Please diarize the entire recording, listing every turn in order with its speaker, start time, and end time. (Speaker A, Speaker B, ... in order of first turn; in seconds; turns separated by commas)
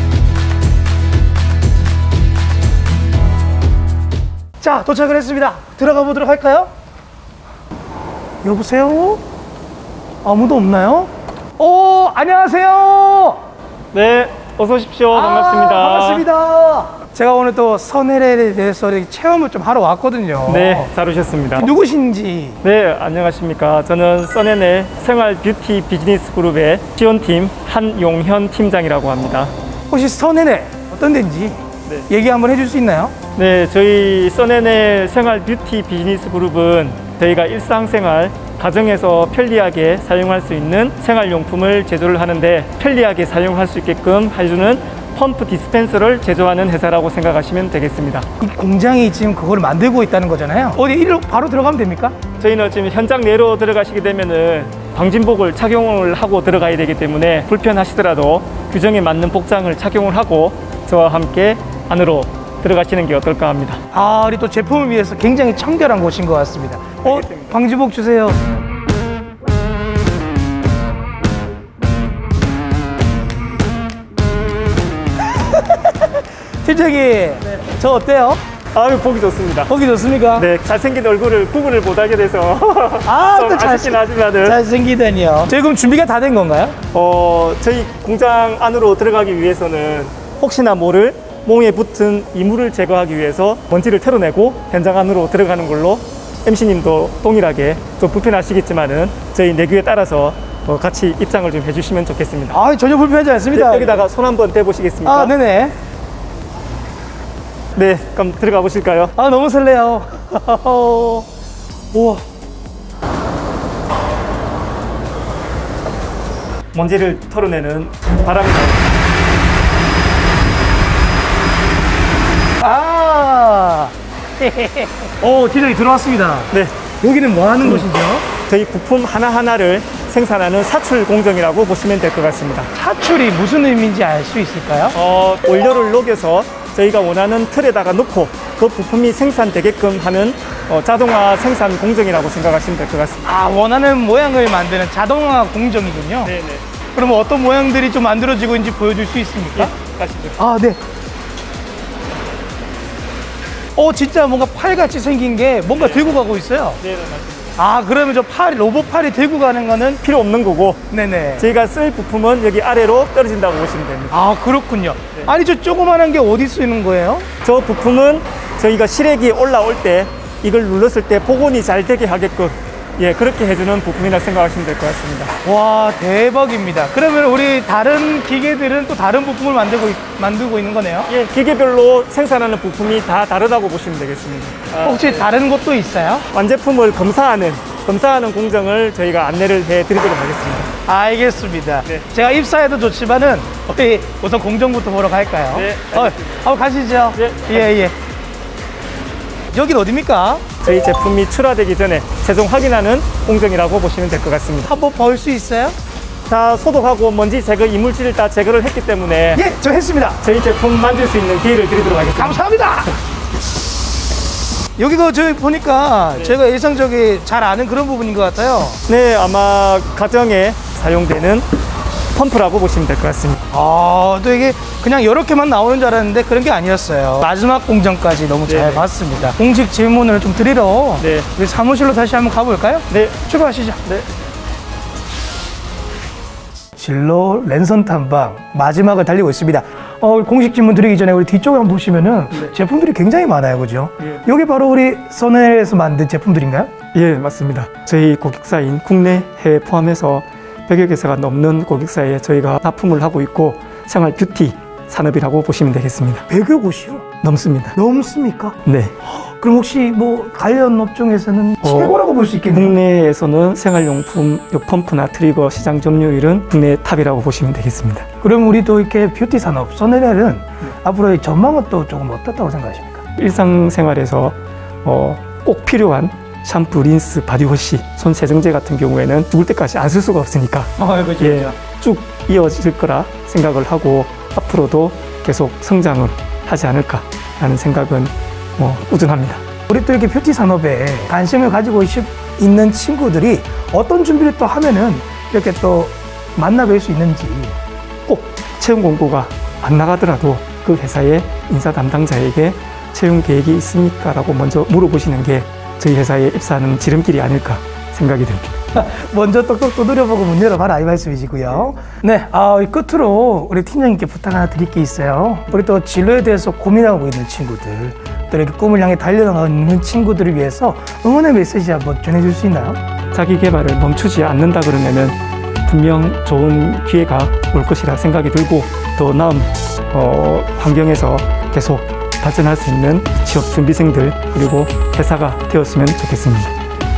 Speaker A: 4.6-6.7, Speaker A: 8.4-9.2, Speaker A: 10.2-13.4, Speaker B: 13.9-16.3, Speaker A: 15.1-20.9, Speaker B: 20.5-21.7, Speaker A: 21.6-22.6, Speaker B: 22.6-29.5, Speaker A: 29.9-33.1, Speaker B: 33.4-48.3, Speaker A: 48.4-52.2, Speaker B: 52.4-63.8, Speaker A: 63.9-68.4, Speaker B: 67.0-67.6, Speaker A: 76.6-78.4, Speaker B: 78.7-79.7, Speaker A: 79.7-80.5, Speaker B: 80.4-84.6, Speaker A: 83.0-86.8, Speaker B: 86.9-102.6, Speaker A: 102.5-104.0, Speaker B: 103.5-105.4, Speaker A: 105.0-105.7, Speaker B: 107.8-109.1, Speaker A: 109.2-111.3, Speaker A: 111.9-112.2, Speaker B: 116.7-118.9, Speaker A: 122.6-128.3, Speaker B: 127.6-127.9, Speaker B: 128.5-132.7, Speaker A: 132.7-135.0, Speaker B: 134.9-143.2, Speaker A: 143.2-146.3, Speaker B: 146.2-146.6, Speaker A: 146.9-149.8, Speaker B: 149.6-150.4, Speaker A: 150.4-150.8, Speaker A: 153.8-156.8, Speaker B: 155.7-157.6, Speaker A: 157.6-160.0, Speaker B: 160.0-160.8, Speaker A: 160.9-161.5, Speaker B: 161.4-164.2, Speaker A: 164.1-167.3, Speaker B: 167.4-175.3, Speaker A: 175.4-181.1, Speaker B: 181.1-185.3, Speaker A: 184.8-186.3, Speaker B: 186.3-190.7, Speaker A: 190.9-197.9, Speaker B: 195.5-196.5, Speaker B: 197.2-197.9, Speaker A: 199.5-200.5, Speaker B: 200.6-204.8, Speaker A: 204.7-205.8, Speaker B: 206.3-209.4, Speaker A: 209.3-210.2, Speaker B: 210.2-212.4, Speaker A: 212.2-212.9, Speaker A: 214.8-218.8, Speaker B: 218.9-221.5, Speaker B: 222.1-223.4, Speaker A: 223.5-233.8, Speaker B: 228.5-228.9, Speaker B: 231.0-231.3, Speaker B: 232.9-233.2, Speaker A: 236.8-246.7, Speaker B: 246.9-256.2, Speaker A: 256.3-257.1, Speaker B: 257.2-257.8, Speaker A: 257.8-262.8, Speaker B: 258.6-259.0, Speaker B: 261.6-268.1, Speaker A: 268.2-273.0, Speaker B: 273.2-289.4, Speaker A: 280.8-281.6, Speaker A: 289.7-297.6, Speaker B: 298.1-308.6, Speaker A: 308.7-322.8, Speaker B: 323.1-336.5